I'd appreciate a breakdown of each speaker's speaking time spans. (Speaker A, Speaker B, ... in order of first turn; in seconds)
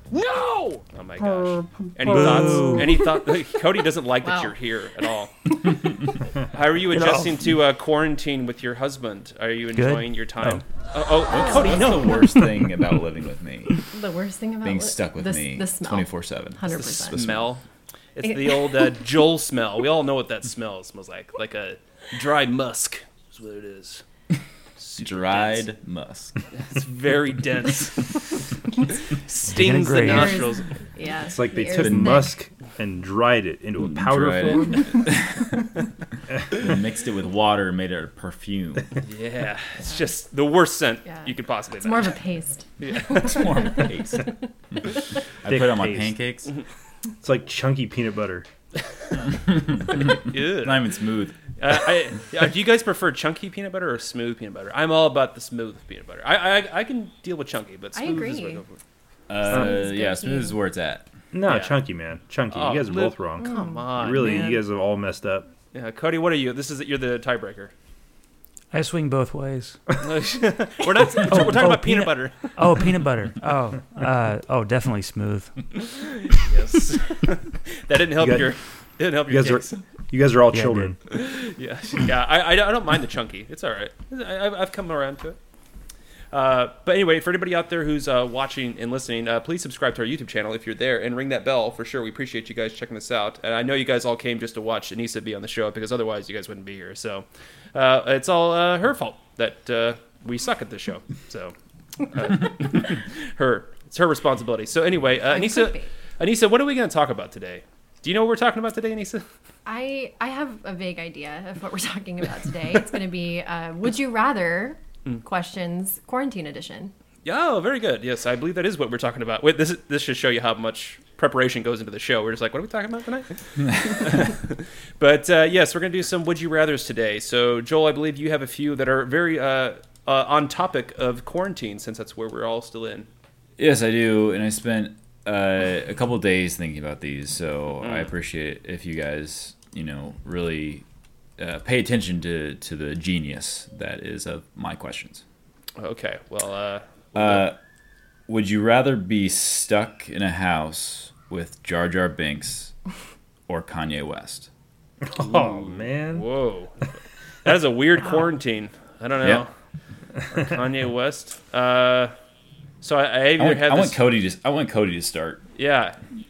Speaker A: 0.1-0.8, 1.4-2.8, 31.3-34.8, 45.5-46.1, 47.2-48.5, 61.3-65.5, 78.2-78.5, 79.3-81.0, 155.0-156.2
Speaker B: 0.9-5.3, 6.4-12.3, 16.7-17.6, 18.2-24.0, 24.8-25.7, 26.5-28.4, 29.2-30.7, 39.0-42.2, 42.8-43.4, 50.0-50.9, 51.6-58.8, 61.5-61.8, 62.5-64.5, 65.7-67.7, 70.0-72.6, 76.2-79.8, 81.1-85.4, 86.3-109.2, 117.2-133.1, 137.8-138.1, 145.8-147.5, 155.2-156.8, 157.4-159.5, 160.3-162.1, 162.8-164.0, 165.6-166.0
Speaker C: 2.1-3.0, 9.8-10.6, 29.5-30.4, 64.2-64.6, 68.7-69.8, 71.2-75.7, 80.5-80.9
Speaker D: 4.2-4.5, 11.4-12.2, 13.9-17.3, 18.2-18.8, 30.0-32.3, 41.0-43.9, 57.9-58.6, 59.5-60.6, 63.4-64.0, 105.3-105.9, 109.7-116.9
Speaker E: 11.3-13.8, 14.6-17.4, 25.0-26.3, 31.8-32.1, 33.8-35.7, 36.5-38.9, 43.1-44.2, 45.4-46.5, 49.5-51.5, 59.3-61.1, 133.6-140.8, 141.4-145.2, 147.1-147.6, 148.3-152.7, 153.5-154.5, 163.4-165.4